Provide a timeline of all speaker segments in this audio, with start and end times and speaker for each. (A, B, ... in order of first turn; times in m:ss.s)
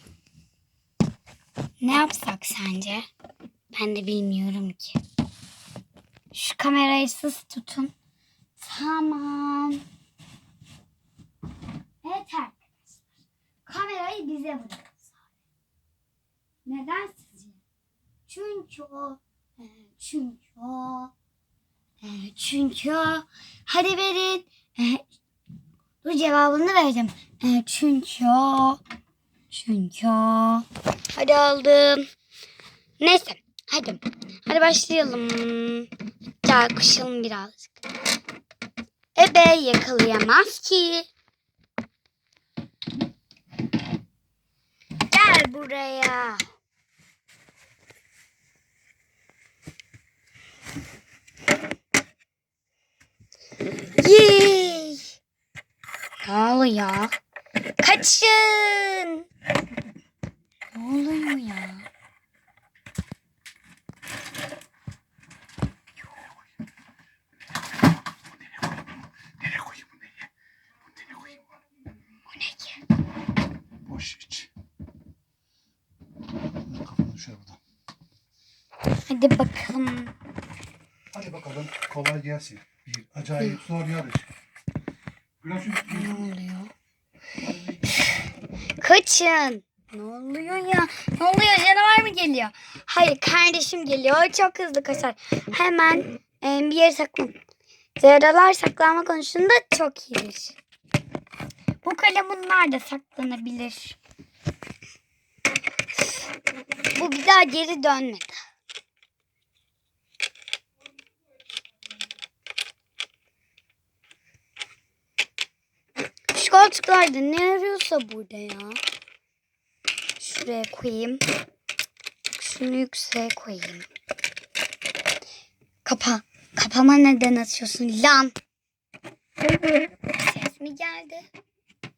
0:01.8-0:03.1 A
0:03.7-0:05.0 A
0:06.3-0:07.9 A
0:08.6-0:09.8 A
0:12.0-0:13.0 A
0:13.7-0:15.1 A
0:16.6-0:17.6 A
0:18.3-0:21.1 A
0:22.0-0:25.1 A
0:26.0-0:28.8 A
0:29.5-0:32.1 A
0:33.0-0:35.9 A
0:36.4-0:37.8 A
0:39.2-0:41.1 A
0:45.1-0:46.4 A
0:54.0-0:55.1 A
0:56.2-0:57.1 A
0:57.8-0:59.2 A
1:00.7-1:01.9 A
1:09.4-1:09.9 B
1:12.3-1:12.8 A
1:13.8-1:14.5 B
1:16.7-1:17.6 B
1:19.1-1:20.1 A
1:21.1-1:24.3 B
1:25.4-1:26.2 B
1:25.8-1:26.7 A
1:28.0-1:28.3 A
1:28.8-1:37.3 A
1:38.0-1:40.6 A
1:41.8-1:44.0 A
1:46.9-1:48.4 A
1:56.3-1:58.8 A
2:00.2-2:01.2 A
2:02.3-2:03.9 A
2:05.8-2:08.3 A
2:09.4-2:11.3 A